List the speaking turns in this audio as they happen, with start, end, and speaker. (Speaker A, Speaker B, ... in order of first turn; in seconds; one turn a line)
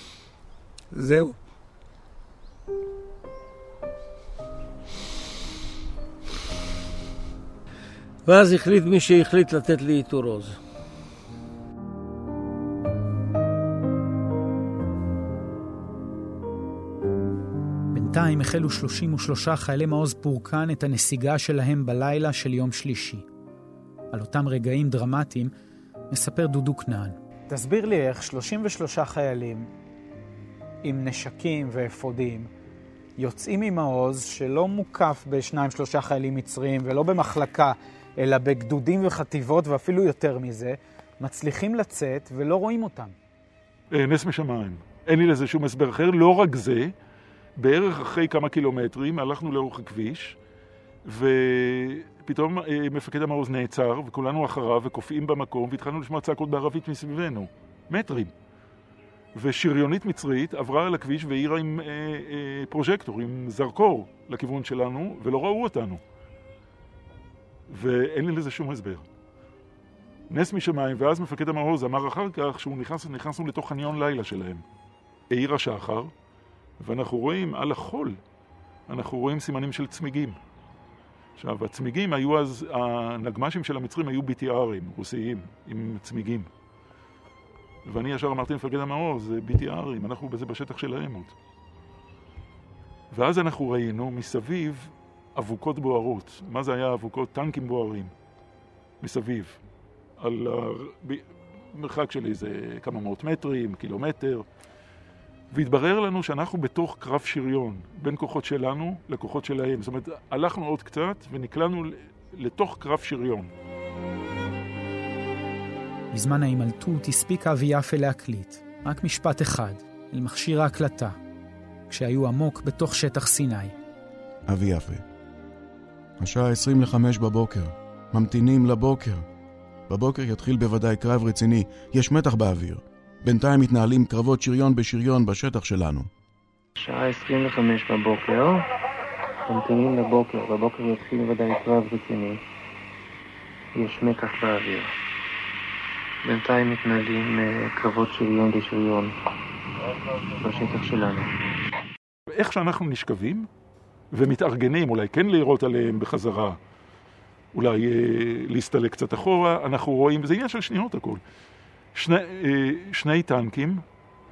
Speaker A: 0.9-1.4
Speaker A: 8.3-10.6
Speaker B: 17.9-23.3
Speaker B: 24.1-25.5
Speaker B: 26.1-29.7
Speaker B: 30.8-32.5
Speaker B: 33.2-43.1
Speaker C: 43.9-46.9
Speaker C: 47.6-50.4
Speaker C: 51.1-58.3
Speaker C: 59.4-66.0
Speaker C: 67.7-69.1
Speaker C: 70.3-74.6
Speaker C: 75.3-76.1
Speaker C: 76.8-78.2
Speaker C: 78.9-80.4
Speaker C: 81.4-86.5
Speaker C: 87.9-91.3
Speaker C: 93.1-98.1
Speaker C: 99.0-99.6
Speaker C: 100.2-104.5
Speaker C: 105.5-113.5
Speaker B: 116.1-121.2
Speaker B: 121.9-123.8
Speaker D: 124.5-125.0
Speaker D: 126.2-129.2
Speaker D: 129.9-136.1
Speaker E: 136.8-138.7
Speaker E: 139.4-142.4
Speaker E: 143.8-144.9
Speaker E: 146.2-149.2
Speaker E: 150.4-151.3
Speaker C: 152.3-153.5
Speaker C: 154.1-156.6
Speaker C: 157.5-161.2
Speaker C: 161.9-163.8